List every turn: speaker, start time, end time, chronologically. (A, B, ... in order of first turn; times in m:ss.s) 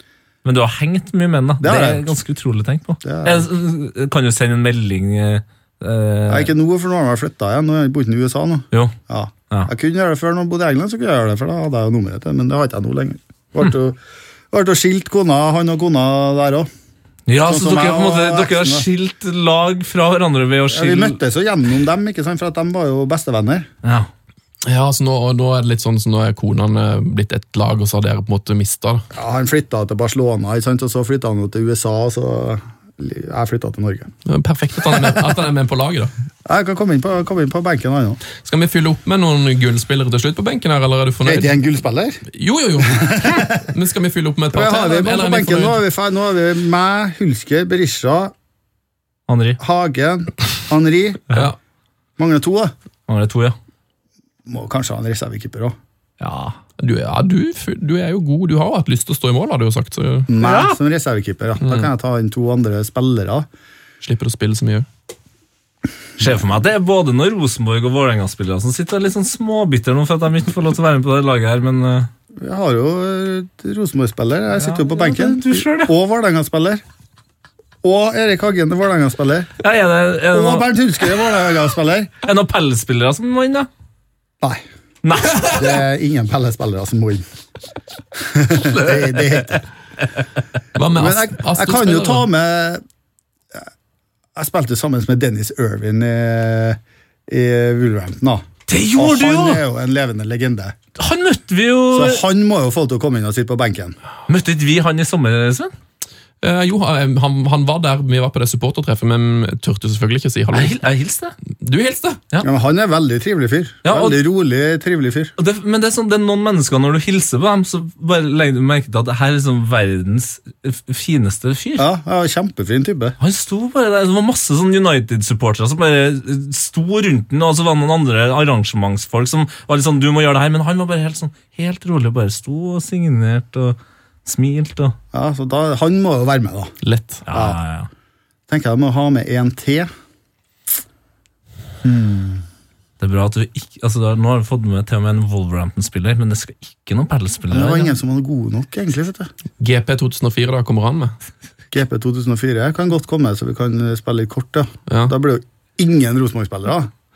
0:00.4-0:06.5 A
0:01.6-0:02.2 B
0:03.0-0:03.5 B
0:06.3-0:14.0 B
0:14.5-0:16.7 B
0:17.3-0:21.2 A
0:17.4-0:18.9 B
0:20.7-0:23.7 B
0:23.8-0:24.1 A
0:24.6-0:29.0 C
0:29.1-0:34.1 B
0:34.3-0:36.1 C
0:34.9-0:35.2 B
0:36.5-0:38.2 B
0:38.3-0:41.6 C
0:41.2-0:42.2 B
0:42.3-0:45.8 C
0:42.9-0:43.6 B
0:44.5-0:48.3 B
0:49.3-0:49.6 A
0:49.6-0:51.4 B
0:51.3-0:51.6 C
0:52.2-0:52.7 B
0:53.1-0:53.6 A
0:54.5-0:55.8 B
0:56.2-0:56.6 A
0:56.8-1:00.3 C
1:00.3-1:03.5 B
1:00.4-1:00.8 A
1:01.6-1:01.9 C
1:04.0-1:04.9 C
1:06.2-1:12.1 A
1:12.4-1:16.8 B
1:14.6-1:15.9 A
1:17.8-1:19.5 B
1:19.6-1:20.7 A
1:20.3-1:22.1 B
1:22.2-1:23.7 A
1:25.0-1:25.8 A
1:25.4-1:27.2 B
1:28.2-1:29.6 B
1:28.6-1:29.4 A
1:30.8-1:32.3 C
1:30.9-1:32.8 B
1:34.4-1:38.4 B
1:38.7-1:39.6 A
1:39.0-1:40.8 B
1:41.0-1:42.2 A
1:41.9-1:44.0 B
1:44.3-1:45.7 A
1:46.4-1:50.8 C
1:50.5-1:51.4 A
1:51.6-1:52.2 C
1:52.4-1:55.3 B
1:53.8-1:54.2 A
1:55.4-2:01.9 A
2:01.8-2:03.2 B
2:03.2-2:15.0 A
2:15.1-2:16.7 B
2:16.8-2:17.2 C
2:17.3-2:17.9 A
2:17.3-2:17.6 B
2:18.5-2:19.9 B
2:21.8-2:22.4 B
2:23.0-2:27.9 A
2:27.5-2:29.3 B
2:29.6-2:31.1 C
2:31.7-2:36.9 B
2:34.9-2:35.2 C